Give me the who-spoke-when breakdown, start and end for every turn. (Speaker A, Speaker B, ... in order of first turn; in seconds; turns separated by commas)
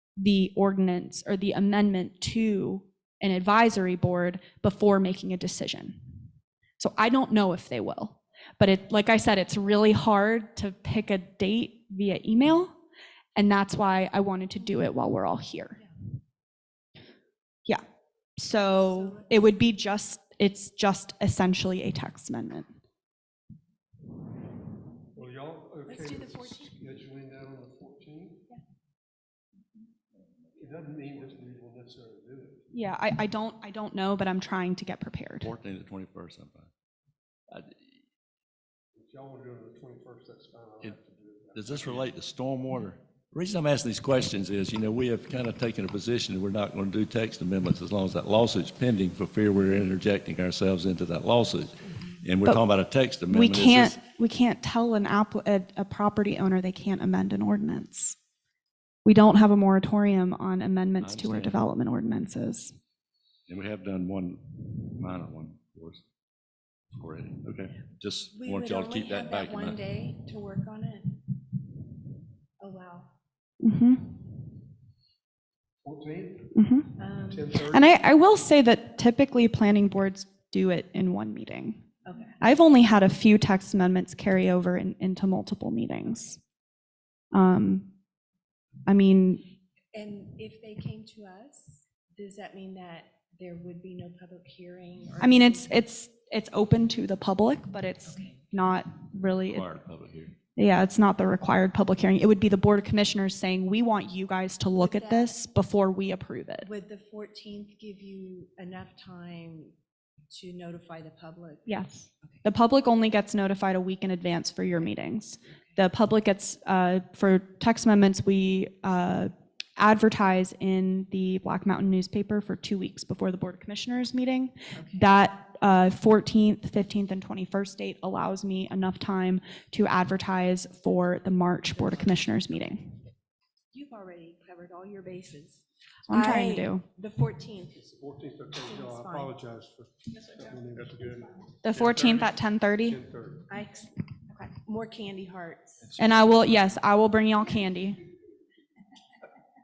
Speaker A: 0.2-6.0, Speaker A: 6.8-12.8, Speaker A: 13.4-15.8, Speaker A: 18.4-22.7, Speaker B: 18.6-19.5, Speaker C: 25.1-28.5, Speaker B: 25.9-26.8, Speaker C: 30.6-32.7, Speaker A: 32.7-35.5, Speaker D: 35.4-36.7, Speaker D: 37.5-38.0, Speaker C: 38.9-42.1, Speaker D: 41.5-54.0, Speaker A: 53.3-58.2, Speaker A: 59.0-62.7, Speaker D: 61.0-61.6, Speaker D: 63.5-66.0, Speaker D: 66.9-69.8, Speaker B: 68.3-71.2, Speaker B: 72.6-73.1, Speaker A: 73.6-74.3, Speaker C: 75.8-76.6, Speaker A: 76.5-77.0, Speaker B: 77.0-77.6, Speaker C: 77.2-78.1, Speaker A: 77.6-81.8, Speaker B: 82.0-82.4, Speaker A: 82.4-86.4, Speaker A: 87.3-87.9, Speaker A: 88.9-89.4, Speaker B: 89.9-95.8, Speaker A: 95.2-99.7, Speaker D: 99.5-100.3, Speaker A: 100.6-106.7, Speaker B: 104.8-105.4, Speaker B: 106.6-109.7, Speaker B: 110.3-111.8, Speaker A: 111.7-132.9, Speaker B: 133.7-137.8, Speaker A: 136.1-136.8, Speaker C: 137.8-143.5, Speaker B: 138.6-139.3, Speaker A: 141.6-143.0, Speaker B: 143.5-145.9, Speaker A: 146.0-148.0